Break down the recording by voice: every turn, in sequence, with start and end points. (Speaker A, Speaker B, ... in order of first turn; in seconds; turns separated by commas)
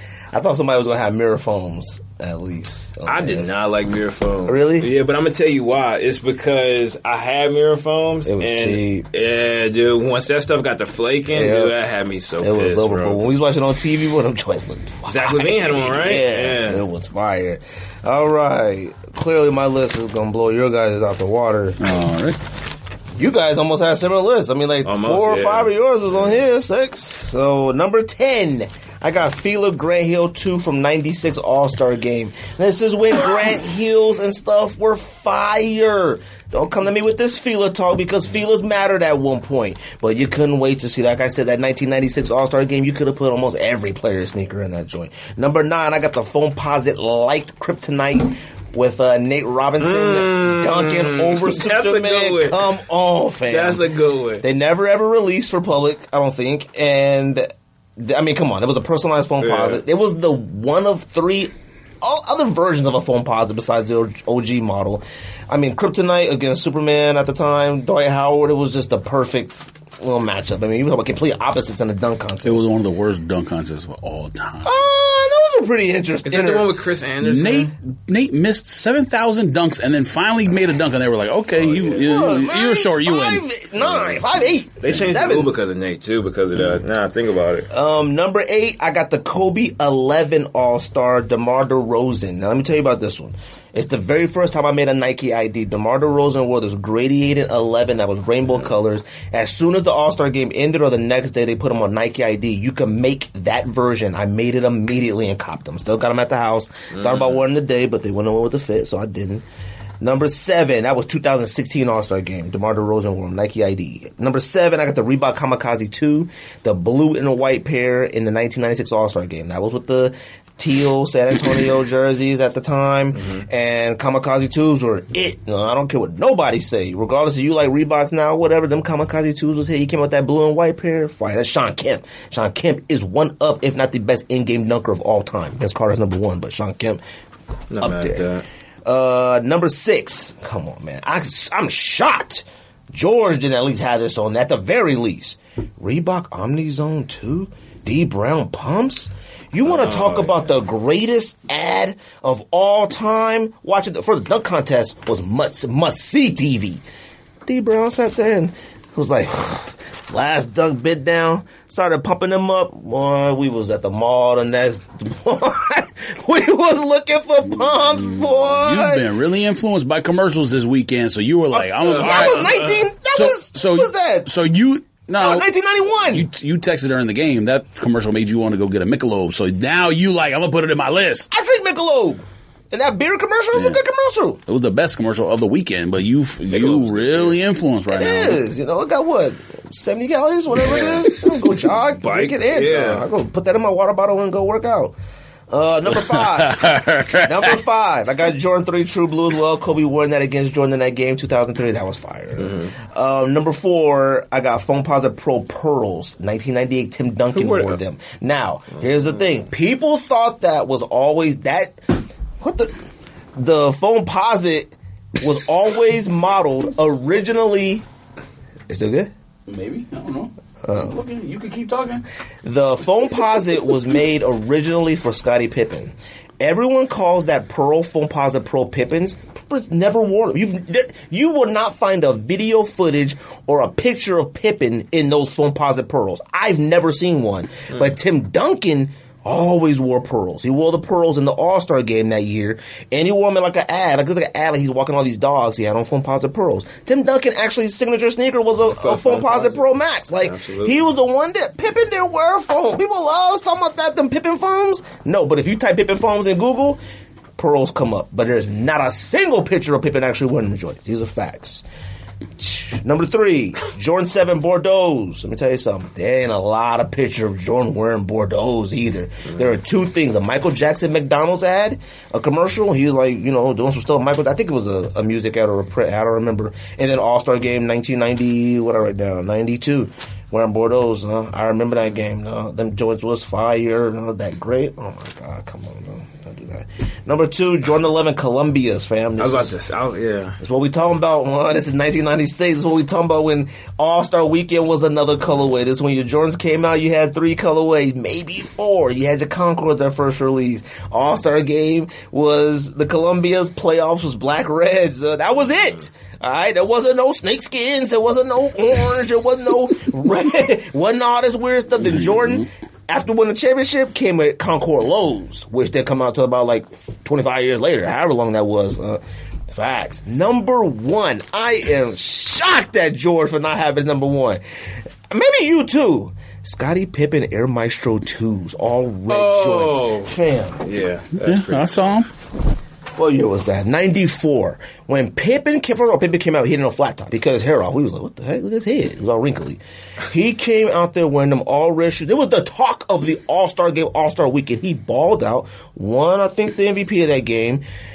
Speaker A: 0.3-3.5, Speaker B: 3.0-13.2, Speaker A: 4.5-4.9, Speaker A: 8.2-9.1, Speaker A: 11.3-11.8, Speaker A: 12.4-21.8, Speaker B: 15.1-16.8, Speaker C: 21.8-22.4, Speaker A: 23.2-53.9, Speaker B: 24.8-26.4, Speaker B: 49.8-52.8, Speaker B: 53.5-54.4, Speaker A: 54.4-61.5, Speaker B: 59.4-59.8, Speaker A: 62.0-72.6, Speaker C: 72.4-74.8, Speaker A: 74.6-76.7, Speaker B: 76.2-77.7, Speaker C: 77.2-83.4, Speaker B: 81.6-82.1, Speaker A: 82.0-85.5, Speaker B: 83.8-84.2, Speaker B: 84.8-87.7, Speaker A: 87.7-109.4, Speaker B: 107.0-107.4, Speaker A: 110.0-137.0, Speaker B: 137.7-138.4, Speaker A: 137.8-138.2, Speaker A: 138.8-156.8, Speaker B: 149.7-150.4, Speaker A: 157.4-169.1, Speaker C: 167.9-172.6, Speaker A: 171.5-174.3, Speaker B: 171.8-172.8, Speaker C: 173.1-175.5, Speaker A: 175.2-176.3, Speaker C: 176.1-181.3, Speaker A: 181.3-184.4, Speaker C: 183.5-183.8, Speaker C: 184.4-188.4, Speaker B: 186.5-187.4, Speaker A: 187.9-194.9, Speaker B: 190.6-191.1, Speaker B: 192.0-193.0, Speaker A: 195.5-212.7, Speaker C: 195.9-197.6, Speaker B: 207.3-207.8, Speaker A: 213.3-217.8, Speaker A: 218.7-219.1, Speaker C: 219.5-222.0, Speaker A: 220.6-221.0, Speaker A: 222.4-256.8, Speaker B: 248.8-249.6, Speaker B: 250.2-250.8, Speaker A: 257.4-261.6, Speaker A: 262.4-289.6, Speaker B: 289.2-290.4, Speaker A: 290.4-324.4, Speaker C: 311.8-312.4, Speaker A: 325.1-330.6, Speaker B: 329.1-332.0, Speaker C: 331.2-332.1, Speaker A: 333.0-347.6